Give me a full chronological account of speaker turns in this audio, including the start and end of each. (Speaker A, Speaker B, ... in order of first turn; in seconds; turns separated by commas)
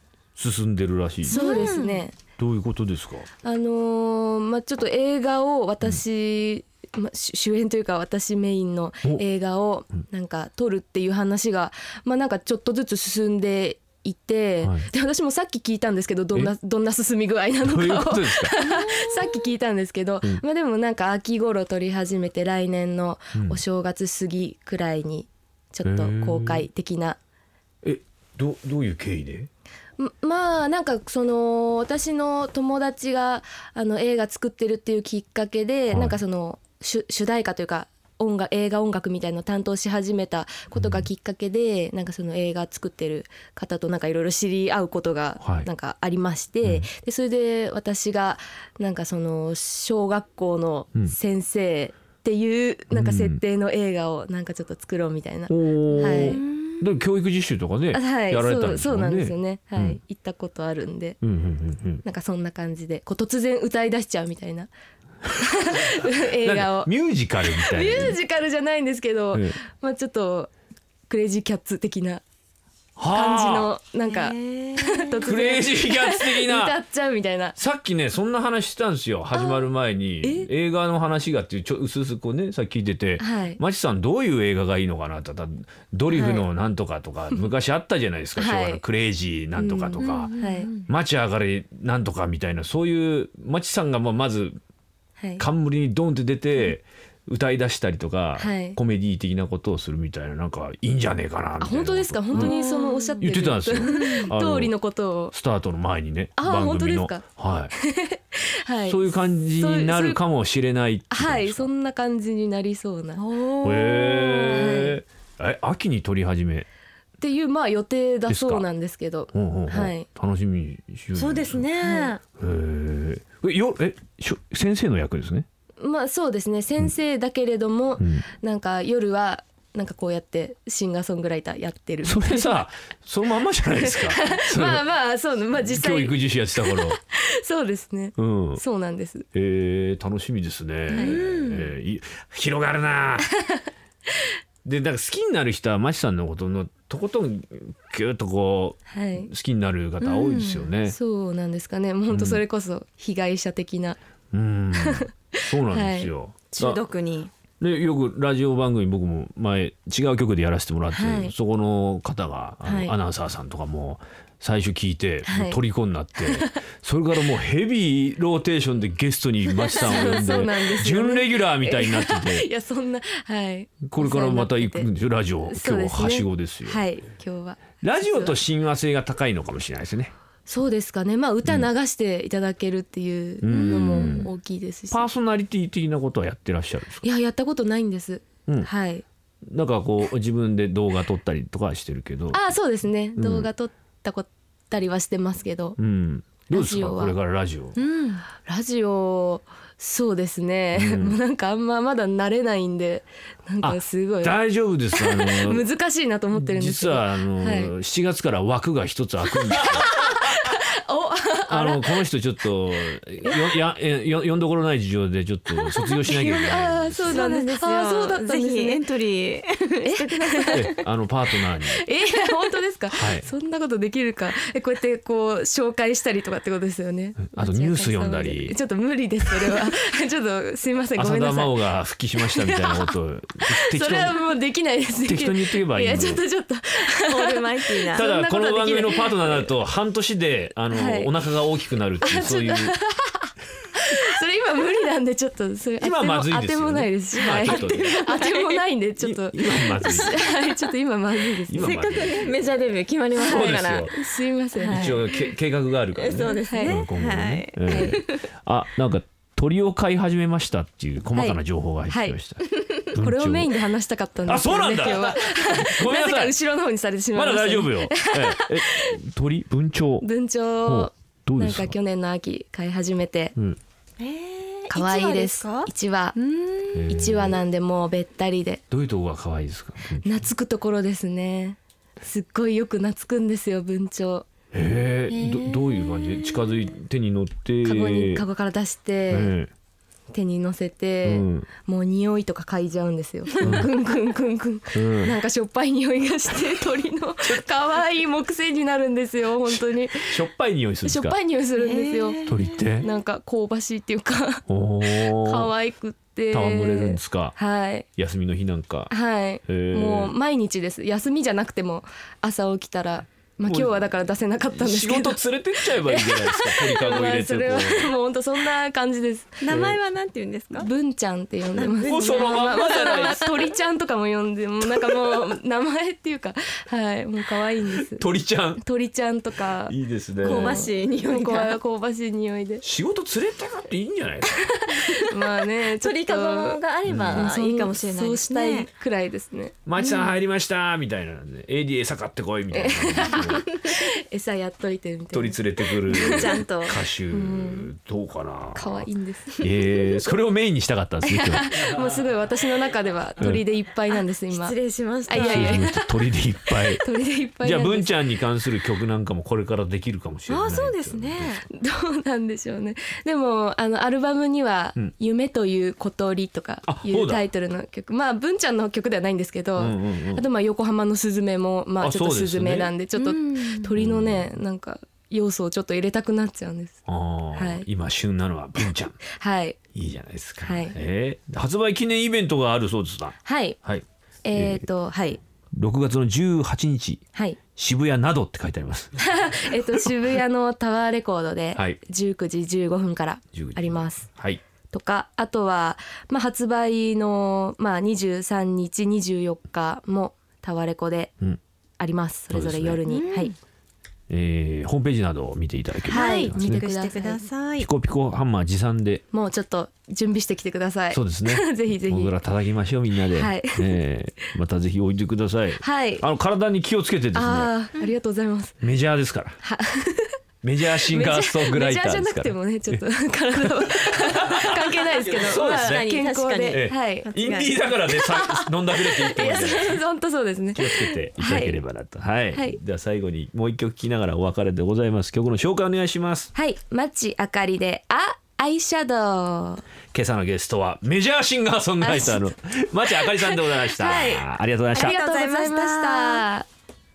Speaker A: 0.4-1.8, Speaker B: 1.2-2.2, Speaker C: 1.3-2.1, Speaker A: 2.4-3.3, Speaker B: 3.4-27.2, Speaker A: 17.6-18.5, Speaker C: 18.6-19.4, Speaker A: 23.4-23.6, Speaker A: 25.8-26.7, Speaker A: 27.8-29.5, Speaker B: 30.0-56.4, Speaker A: 35.9-36.2, Speaker A: 40.8-41.1, Speaker A: 45.4-45.7, Speaker A: 52.9-53.4, Speaker A: 55.5-60.0, Speaker C: 55.9-56.8, Speaker B: 57.9-61.2, Speaker A: 61.2-62.0, Speaker B: 62.0-64.7, Speaker B: 65.4-66.9, Speaker A: 66.4-68.2, Speaker B: 67.4-70.5, Speaker A: 69.3-69.6, Speaker B: 71.1-72.2, Speaker A: 73.0-73.7, Speaker B: 73.1-77.6, Speaker C: 74.1-75.4, Speaker A: 75.2-76.8, Speaker A: 77.6-90.3, Speaker B: 79.3-80.5, Speaker B: 83.2-83.6, Speaker B: 86.1-86.5, Speaker B: 88.4-88.8, Speaker B: 89.5-90.7, Speaker C: 90.0-90.8, Speaker A: 90.9-94.6, Speaker B: 95.2-95.4, Speaker A: 95.4-102.5, Speaker B: 98.4-98.8, Speaker B: 101.6-105.3, Speaker C: 102.3-103.2, Speaker A: 103.2-104.8, Speaker C: 103.8-104.3, Speaker A: 105.3-107.7, Speaker B: 106.4-110.2, Speaker A: 108.8-111.7, Speaker B: 111.1-113.2, Speaker C: 113.2-114.9, Speaker A: 113.6-116.7, Speaker B: 114.5-115.0, Speaker B: 117.2-120.1, Speaker A: 118.3-118.7, Speaker A: 119.3-121.7, Speaker C: 121.2-122.2, Speaker B: 121.8-122.1, Speaker A: 122.4-125.5, Speaker B: 125.8-132.6, Speaker A: 128.0-128.3, Speaker A: 132.0-134.9, Speaker B: 133.7-139.2, Speaker A: 135.5-137.0, Speaker A: 138.2-138.6, Speaker A: 139.3-143.3, Speaker B: 140.9-141.2, Speaker C: 140.9-141.7, Speaker A: 144.7-151.0, Speaker B: 148.9-149.3, Speaker C: 150.0-150.7, Speaker B: 150.8-154.0, Speaker A: 152.1-152.4, Speaker A: 154.3-156.8, Speaker B: 154.8-155.1, Speaker B: 155.7-156.1, Speaker C: 156.5-157.3, Speaker A: 157.6-172.5, Speaker B: 160.9-161.3, Speaker B: 162.6-162.9, Speaker B: 165.3-165.6, Speaker B: 166.2-166.5, Speaker B: 169.6-174.9, Speaker A: 173.8-176.8, Speaker B: 175.4-178.4, Speaker A: 177.8-180.1, Speaker B: 180.5-185.0, Speaker A: 183.4-184.3, Speaker C: 183.5-184.3, Speaker A: 184.9-187.0, Speaker B: 187.0-189.0, Speaker A: 189.5-192.6, Speaker B: 192.3-195.8, Speaker A: 193.2-193.5, Speaker A: 195.8-197.8, Speaker B: 196.5-197.2, Speaker C: 197.8-198.2, Speaker B: 198.3-204.4, Speaker A: 200.7-201.2, Speaker A: 203.6-205.7, Speaker B: 204.9-207.7, Speaker A: 206.3-209.9, Speaker B: 209.8-211.9, Speaker A: 211.5-217.2, Speaker B: 215.6-218.8, Speaker C: 217.1-220.7, Speaker B: 219.8-220.7, Speaker A: 220.5-221.8, Speaker B: 221.7-231.6, Speaker A: 222.9-223.3, Speaker A: 227.3-228.6, Speaker A: 231.0-234.2, Speaker B: 232.2-232.9, Speaker B: 233.5-239.5, Speaker A: 235.1-236.2, Speaker C: 237.1-238.1, Speaker A: 237.9-242.8, Speaker B: 240.7-241.1, Speaker B: 242.0-251.8, Speaker A: 245.8-248.0, Speaker C: 247.2-248.6, Speaker A: 249.0-250.3, Speaker A: 251.5-252.4, Speaker C: 251.6-254.0, Speaker A: 253.2-253.9, Speaker B: 253.3-255.0, Speaker C: 254.6-255.3, Speaker A: 254.7-262.4, Speaker C: 255.9-258.2, Speaker B: 256.2-256.9, Speaker B: 257.6-258.0, Speaker B: 261.1-262.2, Speaker B: 262.8-268.9, Speaker A: 262.9-263.6, Speaker A: 264.3-266.3, Speaker A: 267.1-270.1, Speaker B: 270.0-273.4, Speaker A: 270.6-271.8, Speaker C: 274.0-276.9, Speaker B: 274.7-276.2, Speaker A: 276.7-277.4, Speaker B: 276.9-278.6, Speaker A: 278.7-280.3, Speaker B: 280.0-284.3, Speaker A: 284.5-288.2, Speaker C: 285.1-286.7, Speaker B: 287.6-289.4, Speaker A: 289.1-289.5, Speaker B: 290.1-300.2, Speaker A: 291.0-291.5, Speaker A: 293.4-293.7, Speaker A: 294.7-295.1, Speaker A: 299.4-301.2, Speaker B: 300.8-307.9, Speaker C: 301.6-302.6, Speaker A: 302.3-302.9, Speaker A: 304.5-305.5, Speaker A: 306.3-307.4, Speaker A: 307.9-308.9, Speaker B: 308.9-319.6, Speaker A: 309.4-310.1, Speaker A: 313.4-314.0, Speaker A: 314.5-317.9, Speaker C: 319.4-320.7, Speaker A: 319.5-319.8, Speaker B: 320.5-328.0, Speaker C: 321.6-323.4, Speaker A: 321.8-323.4, Speaker A: 327.7-328.6, Speaker B: 328.6-332.6, Speaker A: 329.5-330.7, Speaker C: 330.2-331.6, Speaker A: 332.6-334.5, Speaker B: 334.4-339.8, Speaker C: 334.7-338.7, Speaker A: 336.9-337.3, Speaker A: 339.7-343.4, Speaker B: 342.5-346.4, Speaker C: 343.1-343.8, Speaker A: 345.1-348.9, Speaker C: 345.9-346.7, Speaker B: 347.1-347.7, Speaker B: 348.6-350.0, Speaker A: 349.4-351.7, Speaker B: 351.0-358.0, Speaker A: 353.2-353.4, Speaker C: 353.9-355.7, Speaker A: 355.1-356.9, Speaker A: 357.4-361.4, Speaker C: 360.3-361.4, Speaker B: 361.5-376.8, Speaker A: 366.6-367.2, Speaker A: 369.6-370.3, Speaker A: 371.8-372.7, Speaker C: 372.9-373.7, Speaker A: 373.8-374.3, Speaker A: 376.9-379.0, Speaker B: 377.4-377.7, Speaker B: 379.1-379.6, Speaker A: 379.7-384.6, Speaker B: 380.4-380.8, Speaker B: 383.2-383.6, Speaker B: 384.2-385.2, Speaker A: 385.6-389.0, Speaker B: 389.0-394.1, Speaker A: 391.5-391.8, Speaker A: 393.3-394.4, Speaker B: 394.7-401.1, Speaker B: 401.8-403.3, Speaker A: 402.3-402.8, Speaker C: 402.9-403.4, Speaker A: 404.1-406.7, Speaker C: 405.9-407.7, Speaker B: 405.9-407.2, Speaker A: 407.6-409.0, Speaker B: 409.1-412.1, Speaker A: 410.9-417.5, Speaker B: 413.2-413.7, Speaker B: 415.6-416.0, Speaker B: 417.1-418.6, Speaker A: 418.6-419.4, Speaker B: 419.4-420.2, Speaker A: 420.4-422.8, Speaker B: 420.8-427.1, Speaker A: 425.2-429.8, Speaker C: 425.2-427.7, Speaker B: 427.9-431.6, Speaker A: 430.5-436.3, Speaker B: 432.3-432.6, Speaker B: 436.3-439.6, Speaker A: 439.9-445.0, Speaker B: 441.8-442.3, Speaker B: 442.9-446.5, Speaker C: 444.8-446.2